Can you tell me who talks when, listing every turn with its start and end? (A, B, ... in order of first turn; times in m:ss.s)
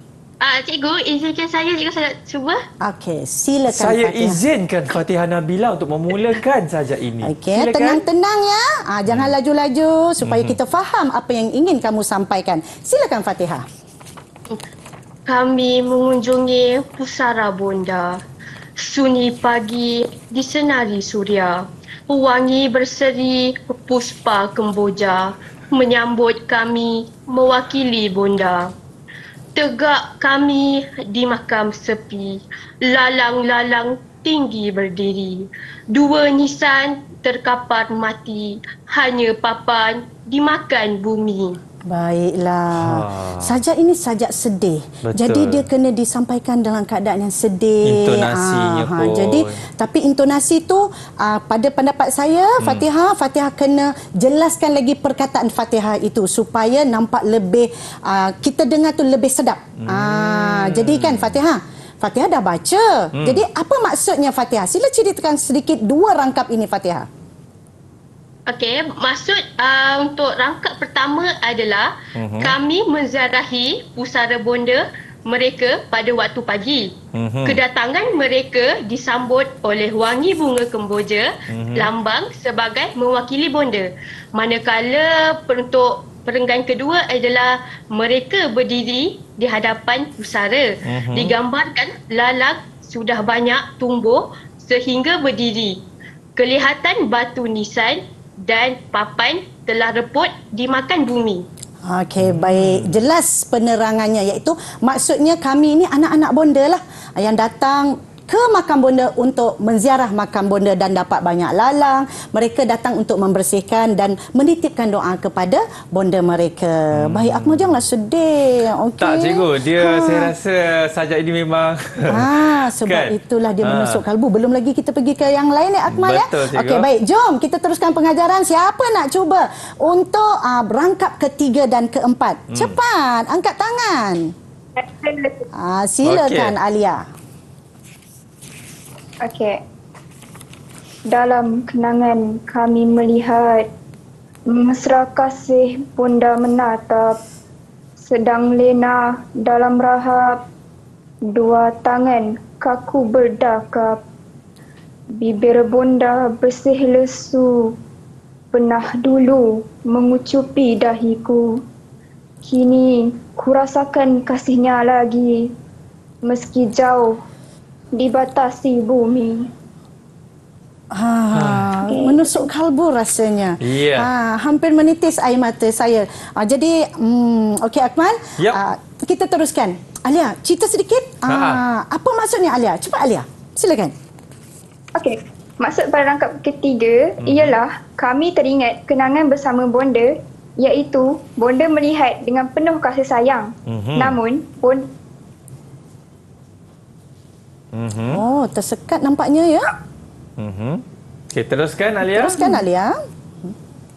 0:00.4-0:02.6 A
0:02.8-0:04.4 B
0:03.7-0:08.0 C
0:07.2-0:13.7 B
0:09.1-0:09.3 C
0:10.2-0:10.6 C
0:15.3-0:18.2 A
0:18.8-0:28.7 A
0:29.6-0:41.6 A
0:41.9-1:07.1 B
0:42.7-0:43.6 C
0:45.0-0:45.6 C
0:47.8-0:49.6 C
0:52.6-0:52.9 C
0:59.8-1:01.4 C
1:03.2-1:03.4 C
1:08.5-1:16.9 A
1:12.2-1:12.6 C
1:17.1-1:17.6 C
1:17.4-1:35.8 A
1:21.5-1:21.9 C
1:30.8-1:31.4 C
1:36.4-1:41.5 A
1:41.8-2:00.3 B
1:42.2-1:43.0 C
1:56.9-1:57.7 C
1:59.0-2:04.0 C
2:02.1-2:14.2 B
2:05.9-2:06.9 C
2:12.5-2:12.8 C
2:14.8-2:15.5 D
2:15.5-2:17.1 B
2:16.0-2:16.6 C
2:19.2-2:19.6 D
2:21.1-2:23.7 D
2:24.5-2:27.2 D
2:28.0-2:30.4 D
2:31.3-2:34.0 D
2:35.2-2:37.8 D
2:38.5-2:41.6 D
2:42.4-2:45.5 D
2:46.2-2:47.2 D
2:48.0-2:49.5 D
2:50.9-3:03.9 B
2:51.3-2:51.7 C
2:51.8-2:52.5 D
2:53.6-2:54.1 C
3:01.3-3:01.6 C
3:05.0-3:14.9 D
3:07.2-3:07.6 C
3:13.7-3:14.2 C
3:17.7-3:18.2 C
3:18.1-3:19.7 B
3:20.4-3:22.4 C
3:22.0-3:23.5 B